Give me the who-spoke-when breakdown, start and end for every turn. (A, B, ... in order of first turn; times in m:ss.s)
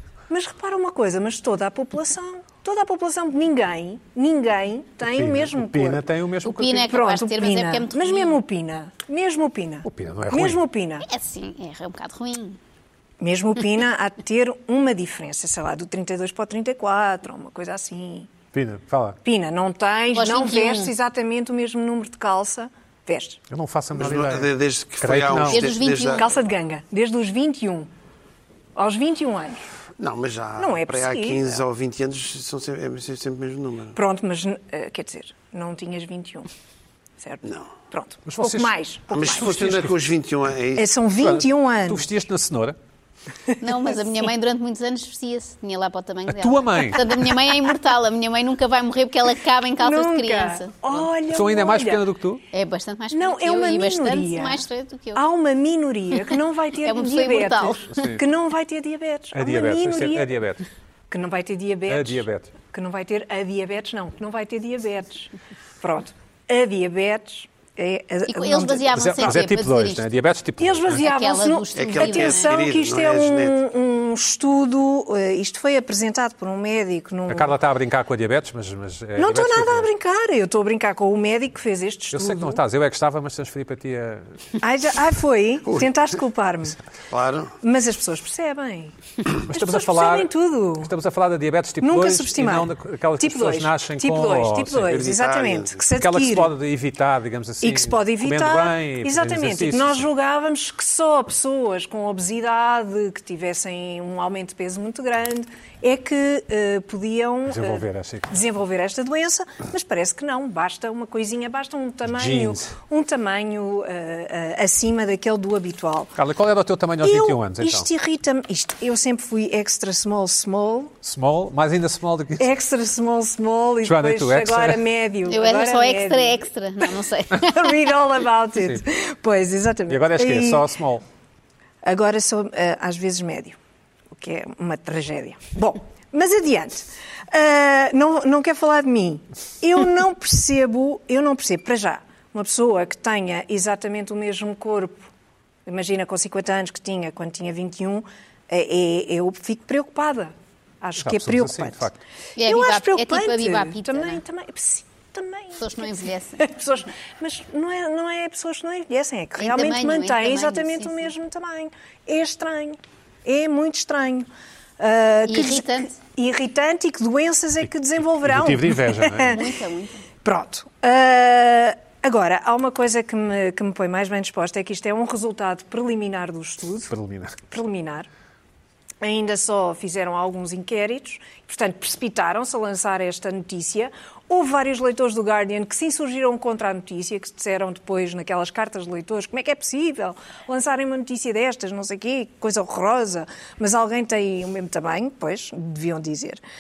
0:00.3-0:06.1 A
0:05.1-0:06.9 B
0:06.4-0:08.4 C
0:06.8-0:11.1 A
0:09.8-0:10.6 B
0:11.0-0:12.6 C
0:13.2-0:18.3 A
0:18.5-0:19.2 B
0:19.2-0:23.4 A
0:20.1-0:20.9 C
0:23.5-0:25.7 B
0:24.0-0:26.2 D
0:25.5-0:26.2 C
0:26.2-0:27.9 A
0:28.8-0:29.6 A
0:30.0-0:34.0 D
0:30.6-0:31.6 A
0:34.0-0:36.5 A
0:37.2-0:39.6 A
0:37.4-0:37.8 D
0:38.3-0:39.9 B
0:39.1-0:40.9 D
0:40.8-0:42.1 A
0:41.2-0:42.8 B
0:43.6-0:51.1 C
0:46.3-0:47.0 B
0:49.8-0:52.1 A
0:51.3-0:52.4 B
0:52.5-0:55.2 C
0:53.1-1:00.4 A
0:56.8-0:57.9 C
0:57.9-0:58.2 B
0:59.3-1:00.6 B
1:01.1-1:09.3 A
1:01.9-1:02.5 B
1:08.3-1:10.0 C
1:08.9-1:11.1 B
1:10.6-1:17.6 A
1:10.9-1:12.6 C
1:11.8-1:13.6 D
1:17.3-1:19.9 B
1:19.2-1:22.6 A
1:22.1-1:24.3 B
1:24.6-1:26.8 A
1:27.1-1:27.6 D
1:27.6-1:28.9 A
1:29.5-1:35.1 B
1:29.5-1:30.9 A
1:31.8-1:36.5 A
1:34.9-1:35.8 D
1:36.0-1:40.1 B
1:37.6-1:56.1 A
1:47.5-1:48.4 B
1:52.1-1:52.7 B
1:56.2-1:57.9 B
1:57.0-2:00.9 A
2:01.0-2:02.5 B
2:02.4-2:06.4 A
2:03.8-2:04.8 B
2:05.3-2:07.9 C
2:07.3-2:10.7 A
2:09.9-2:11.0 B
2:11.8-2:13.6 A
2:14.1-2:25.1 A
2:25.7-2:44.3 A
2:31.0-2:32.0 B
2:32.4-2:34.2 C
2:35.6-2:36.5 C
2:39.4-2:41.1 C
2:44.8-2:49.5 A
2:45.3-2:45.9 C
2:48.2-2:49.4 B
2:49.3-2:50.0 C
2:50.2-2:56.9 A
2:56.9-2:57.4 B
2:57.5-2:58.1 A
2:59.0-3:16.4 A